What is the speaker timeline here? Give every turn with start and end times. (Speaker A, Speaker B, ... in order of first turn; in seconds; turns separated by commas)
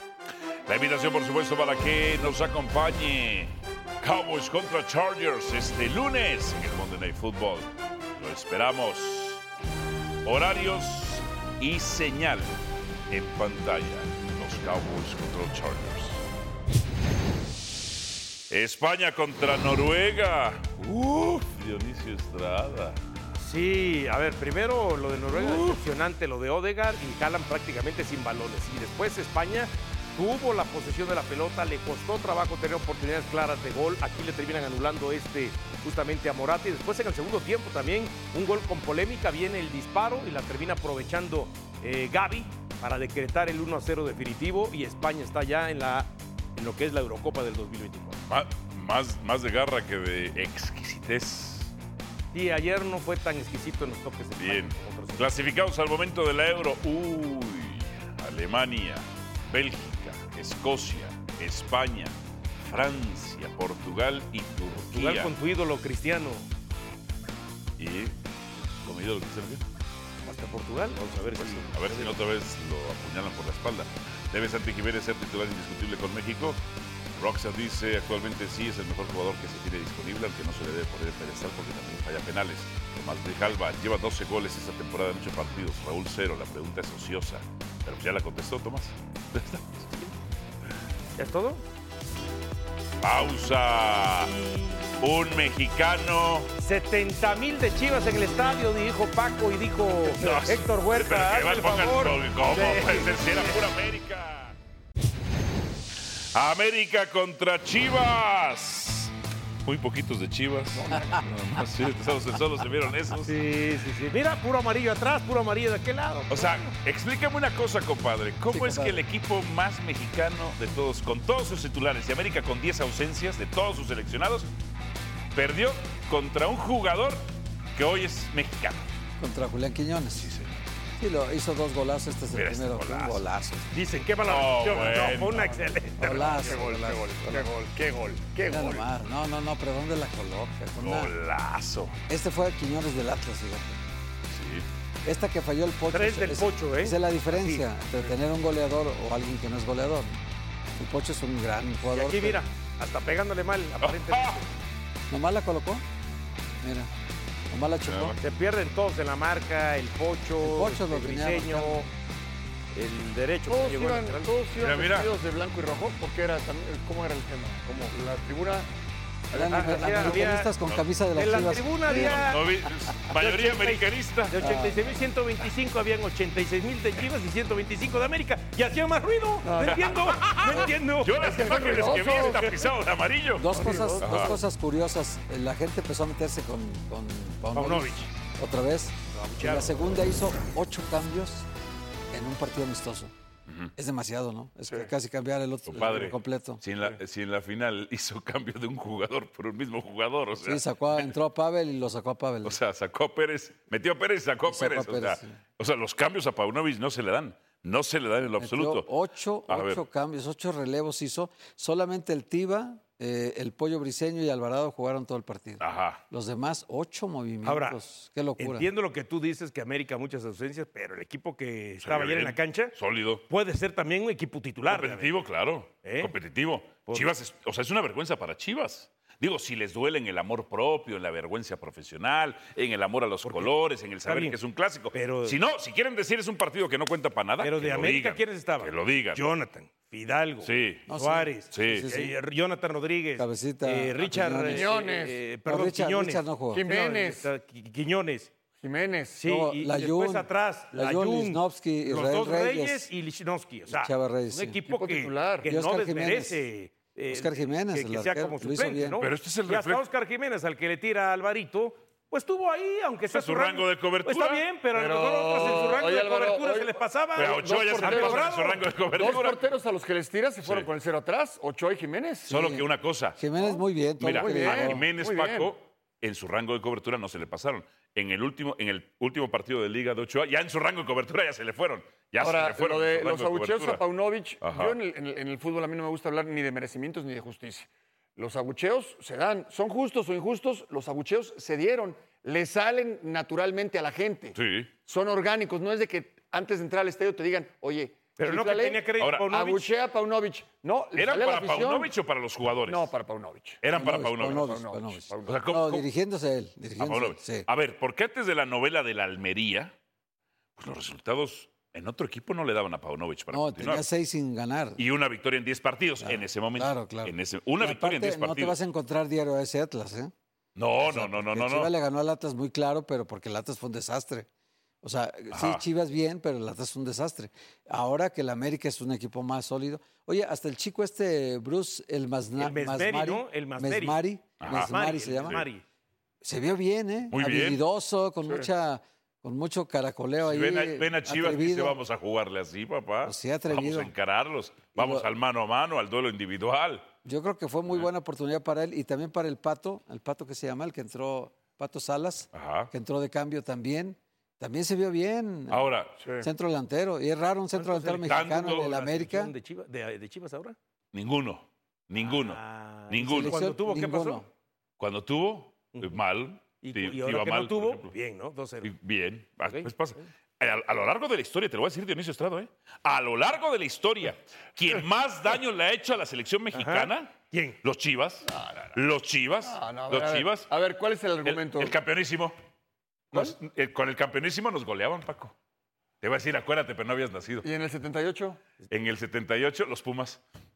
Speaker A: 0.7-9.4, Speaker A: 10.2-12.6, Speaker A: 13.1-16.2, Speaker A: 18.5-23.0, Speaker B: 23.4-48.2, Speaker A: 25.3-25.8, Speaker A: 48.3-51.7, Speaker B: 52.3-55.3, Speaker A: 54.4-65.3, Speaker B: 64.9-66.5, Speaker A: 67.8-68.1, Speaker A: 68.8-69.6, Speaker B: 70.2-72.1, Speaker A: 71.3-76.6, Speaker A: 77.2-90.2, Speaker B: 91.2-91.6, Speaker A: 93.0-94.3, Speaker B: 94.2-95.0, Speaker A: 95.0-96.5, Speaker B: 96.6-103.5, Speaker A: 100.2-104.5, Speaker A: 106.3-109.1, Speaker A: 109.7-113.4, Speaker C: 110.8-111.2, Speaker B: 113.3-116.7, Speaker A: 116.3-124.5, Speaker D: 118.5-119.0, Speaker A: 125.3-127.2, Speaker A: 127.8-128.9, Speaker D: 129.2-130.3, Speaker A: 130.2-130.6, Speaker D: 131.0-133.7, Speaker A: 132.3-133.2, Speaker B: 133.7-136.4, Speaker A: 134.2-135.6, Speaker D: 136.0-137.5, Speaker C: 136.0-138.8, Speaker D: 138.5-141.1, Speaker A: 140.8-142.0, Speaker D: 142.1-143.8, Speaker A: 144.3-144.7, Speaker D: 145.1-150.2, Speaker B: 145.9-147.6, Speaker D: 150.8-152.4, Speaker B: 151.9-154.5, Speaker A: 153.8-154.4, Speaker D: 155.1-155.8, Speaker D: 156.6-156.9, Speaker D: 157.5-158.2, Speaker A: 157.8-158.2, Speaker B: 158.2-161.9, Speaker D: 160.4-161.8, Speaker B: 162.8-164.3, Speaker C: 163.5-168.7, Speaker A: 164.6-165.1, Speaker B: 167.7-167.9, Speaker C: 169.3-170.2, Speaker D: 169.3-172.2, Speaker B: 169.5-170.5, Speaker B: 171.2-172.4, Speaker A: 171.9-174.4, Speaker B: 173.1-182.5, Speaker D: 174.4-174.9, Speaker C: 179.4-179.9, Speaker A: 179.6-184.3, Speaker C: 180.5-182.5, Speaker D: 183.4-191.5, Speaker C: 183.5-184.3, Speaker B: 187.6-188.1, Speaker B: 189.1-189.7, Speaker D: 192.1-193.1, Speaker A: 193.5-193.7, Speaker D: 193.8-196.6, Speaker A: 195.7-201.0, Speaker D: 200.4-202.6, Speaker A: 202.4-208.9, Speaker D: 204.5-205.3, Speaker D: 208.4-218.7, Speaker A: 209.5-209.8, Speaker A: 215.6-216.0, Speaker B: 217.4-217.8, Speaker B: 218.4-222.8, Speaker A: 221.8-223.2, Speaker B: 223.3-225.1, Speaker A: 224.7-239.2, Speaker B: 225.8-226.1, Speaker B: 233.2-234.4, Speaker B: 234.9-235.4, Speaker B: 237.4-248.3, Speaker A: 240.4-240.9, Speaker D: 240.9-242.1, Speaker A: 241.5-241.9, Speaker D: 243.2-244.7, Speaker C: 244.4-245.2, Speaker D: 245.5-246.7, Speaker C: 246.5-247.3, Speaker C: 248.6-249.2, Speaker B: 249.2-268.6, Speaker D: 249.2-252.9, Speaker D: 253.7-254.6, Speaker C: 254.7-255.5, Speaker D: 255.4-256.4, Speaker D: 257.1-259.0, Speaker A: 259.0-259.8, Speaker A: 263.1-264.4, Speaker C: 264.7-268.3, Speaker A: 267.2-269.4, Speaker C: 268.9-272.4, Speaker A: 270.4-270.7, Speaker A: 272.3-273.2, Speaker D: 272.3-272.6, Speaker D: 273.2-274.8, Speaker A: 274.0-283.8, Speaker C: 274.2-275.5, Speaker C: 282.2-301.9, Speaker A: 284.4-284.8, Speaker A: 294.4-294.7, Speaker B: 298.2-299.7, Speaker A: 299.0-299.3, Speaker A: 300.9-302.9, Speaker C: 302.7-303.6, Speaker A: 303.6-304.6, Speaker D: 303.7-307.5, Speaker C: 304.3-305.4, Speaker A: 305.3-305.9, Speaker A: 306.8-309.7, Speaker A: 310.6-313.9, Speaker D: 313.3-314.8, Speaker A: 314.8-318.6, Speaker D: 316.0-320.1, Speaker A: 320.6-321.7, Speaker D: 320.8-324.3, Speaker D: 324.8-335.5, Speaker A: 325.3-325.6, Speaker B: 332.4-335.6, Speaker A: 334.4-335.4, Speaker D: 336.2-341.8, Speaker A: 337.1-337.6, Speaker A: 340.2-346.9, Speaker D: 343.0-343.9, Speaker D: 344.8-345.1, Speaker D: 347.1-355.6, Speaker A: 352.3-352.7, Speaker A: 355.5-356.0, Speaker C: 356.0-356.3, Speaker D: 356.2-359.3, Speaker B: 357.5-360.6, Speaker A: 358.1-358.7, Speaker A: 360.9-363.4, Speaker B: 362.0-364.2, Speaker D: 363.0-364.3, Speaker A: 364.8-367.9, Speaker B: 366.6-368.7, Speaker A: 368.6-380.5, Speaker B: 376.5-377.6, Speaker C: 378.3-378.8, Speaker C: 379.4-381.8, Speaker A: 381.2-382.4, Speaker A: 383.1-385.3, Speaker A: 386.0-387.5, Speaker C: 387.4-388.4, Speaker A: 388.7-390.2